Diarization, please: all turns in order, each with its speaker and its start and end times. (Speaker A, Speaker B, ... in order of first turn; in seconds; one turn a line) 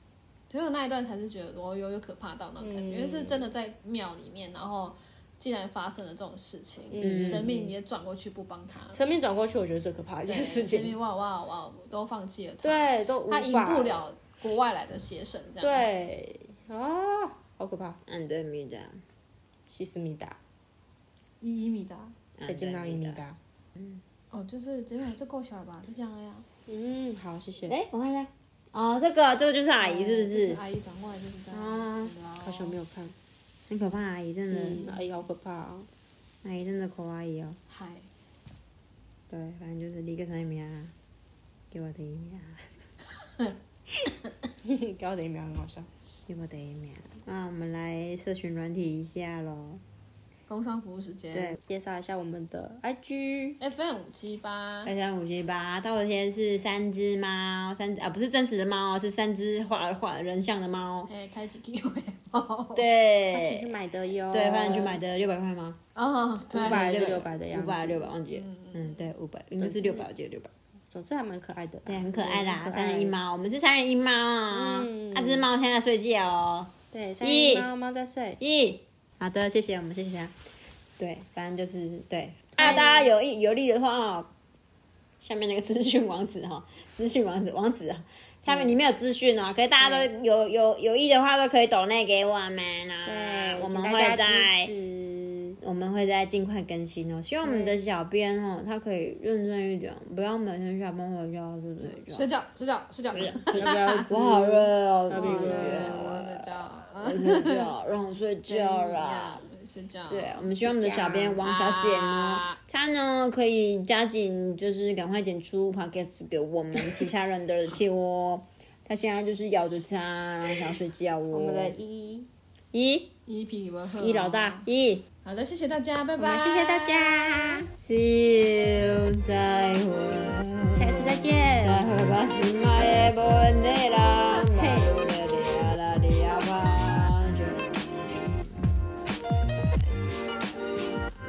Speaker A: 0.5-9.0
Speaker B: 2.6-3.5
Speaker B: 6.9-7.7
Speaker B: 8.9-10.9
Speaker A: 10.2-15.9
Speaker B: 12.6-14.1
Speaker B: 15.6-18.0
Speaker C: 18.1-19.0
Speaker B: 19.7-20.4
Speaker A: 21.4-22.1
Speaker C: 22.4-23.2
Speaker B: 22.4-23.4
Speaker A: 24.3-26.4
Speaker B: 26.7-27.8
Speaker C: 27.6-30.6
Speaker A: 29.8-32.8
Speaker C: 31.5-32.1
Speaker B: 32.4-33.1
Speaker C: 33.7-34.8
Speaker B: 34.5-35.9
Speaker C: 36.4-37.6
Speaker A: 37.7-38.1
Speaker C: 39.3-40.9
Speaker C: 41.7-42.7
Speaker B: 44.6-45.9
Speaker C: 46.3-49.8
Speaker A: 50.5-51.6
Speaker C: 51.3-51.6
Speaker B: 51.7-53.6
Speaker A: 53.6-54.9
Speaker C: 54.8-61.1
Speaker A: 61.1-62.9
Speaker C: 62.7-63.7
Speaker B: 63.3-65.0
Speaker C: 64.3-65.8
Speaker A: 65.9-67.1
Speaker B: 66.5-68.1
Speaker C: 66.5-70.5
Speaker A: 68.3-69.1
Speaker B: 69.6-70.0
Speaker B: 70.9-73.2
Speaker C: 71.8-77.7
Speaker B: 74.5-75.5
Speaker B: 76.9-78.4
Speaker C: 78.4-80.3
Speaker C: 81.0-84.3
Speaker B: 82.6-83.0
Speaker C: 85.2-102.3
Speaker B: 88.5-88.8
Speaker B: 89.8-90.1
Speaker B: 93.0-94.9
Speaker B: 97.4-97.7
Speaker A: 101.8-104.2
Speaker C: 103.1-109.4
Speaker B: 103.5-106.0
Speaker A: 105.1-107.7
Speaker A: 108.5-112.6
Speaker C: 110.1-121.8
Speaker B: 121.3-122.3
Speaker C: 122.7-123.1
Speaker A: 123.2-124.7
Speaker C: 124.0-125.0
Speaker A: 125.2-127.3
Speaker B: 126.2-127.7
Speaker C: 127.3-138.6
Speaker B: 130.7-131.9
Speaker B: 134.4-134.9
Speaker C: 139.5-140.8